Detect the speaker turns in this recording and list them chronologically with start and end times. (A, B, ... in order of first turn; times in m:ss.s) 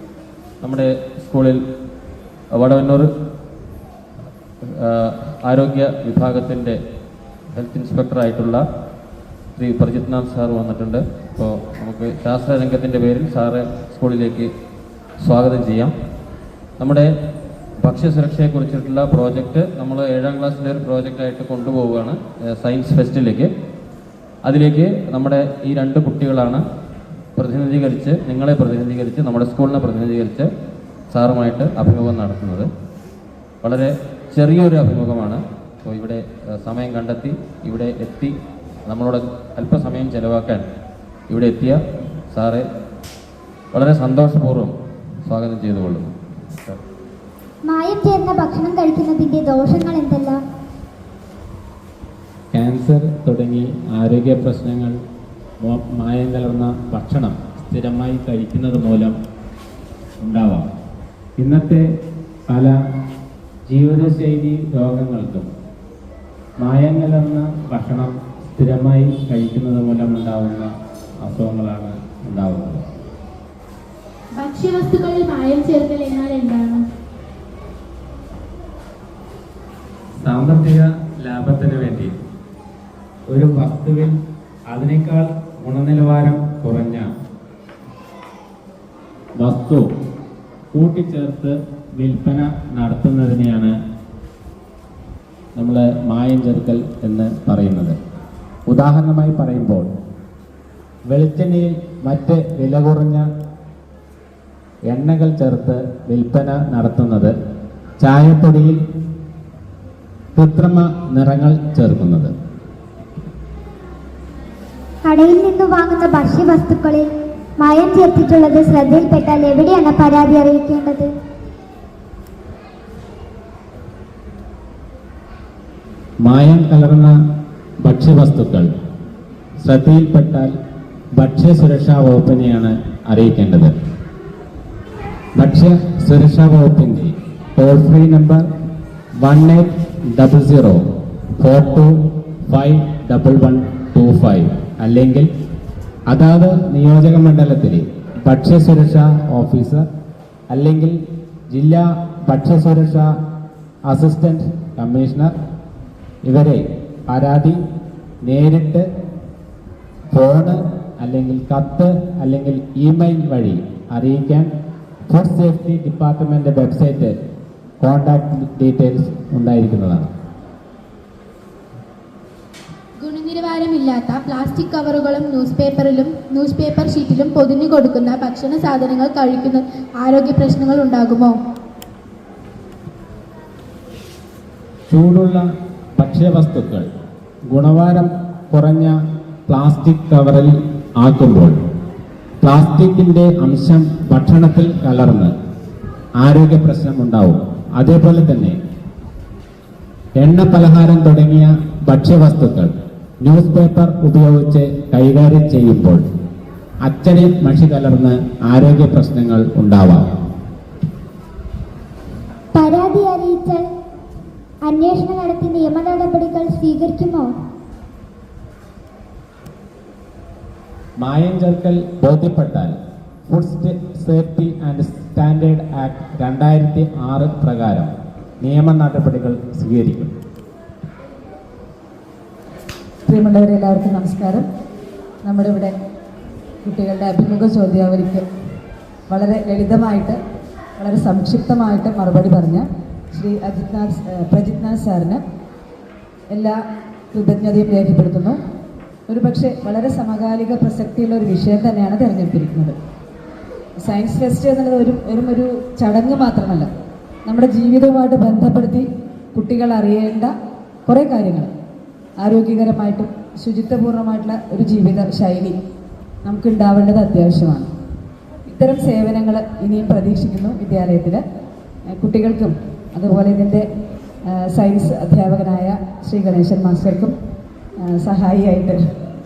0:00.6-0:01.6 A
0:02.5-0:03.1 A
0:04.6-0:06.8 A
0:07.5-0:08.6 A
0:09.6-0:14.5 A
0:15.2-0:15.9 A
0:16.8-0:17.1 A
0:17.8-0:23.5 A
0:24.4-0:26.6 A
0:27.4-0:30.5 A
0:31.1-0:32.7 A
0:33.6-0:38.3 A
0:38.9-0:40.6 A
0:41.3-0:41.8 A
0:42.3-0:42.6 A
0:43.7-0:44.7 A
0:45.3-0:46.1 A
0:47.7-0:50.4 B
0:52.5-0:55.0 C
0:55.6-0:59.2 C
1:00.2-1:00.7 C
1:01.4-1:01.8 C
1:02.5-1:02.8 C
1:03.7-1:05.5 C
1:06.6-1:10.7 C
1:11.2-1:12.8 C
1:14.4-1:16.8 D
1:20.2-1:22.1 C
1:23.3-1:24.2 C
1:24.7-1:27.1 C
1:29.4-1:29.9 C
1:30.8-1:33.7 C
1:35.6-1:38.0 C
1:38.7-1:39.9 C
1:41.1-1:43.3 C
1:44.9-1:47.3 C
1:48.0-1:48.8 C
1:50.4-1:52.3 C
1:55.0-2:01.1 B
2:06.3-2:07.1 C
2:07.8-2:08.7 C
2:09.6-2:10.5 C
2:11.2-2:13.7 C
2:15.4-2:18.5 C
2:19.2-2:20.8 C
2:21.4-2:21.9 C
2:22.5-2:25.3 C
2:26.1-2:29.9 C
2:30.5-2:31.0 C
2:31.5-2:33.1 C
2:33.9-2:35.3 C
2:36.3-2:37.6 C
2:38.2-2:38.9 C
2:40.1-2:44.5 C
2:45.1-2:47.2 C
2:47.8-2:50.1 C
2:53.0-3:01.3 D
3:04.9-3:05.4 C
3:06.0-3:06.9 C
3:07.5-3:09.0 C
3:09.5-3:11.6 C
3:12.4-3:15.3 C
3:16.2-3:18.6 C
3:20.2-3:26.0 C
3:26.8-3:30.1 C
3:32.6-3:33.7 B
3:34.6-3:37.3 B
3:41.0-3:42.8 C
3:43.3-3:50.1 C
3:53.1-3:54.4 E
3:55.2-3:55.7 E
3:56.6-3:58.2 E
3:59.1-4:00.2 E
4:00.8-4:05.2 E
4:06.3-4:06.6 E
4:07.1-4:08.4 E
4:09.1-4:12.8 E
4:13.8-4:16.7 E
4:17.3-4:20.3 E
4:20.9-4:21.5 E
4:22.2-4:25.6 E
4:26.2-4:27.7 E
4:28.5-4:31.2 E
4:31.9-4:33.7 E
4:34.3-4:37.1 E
4:37.9-4:38.8 E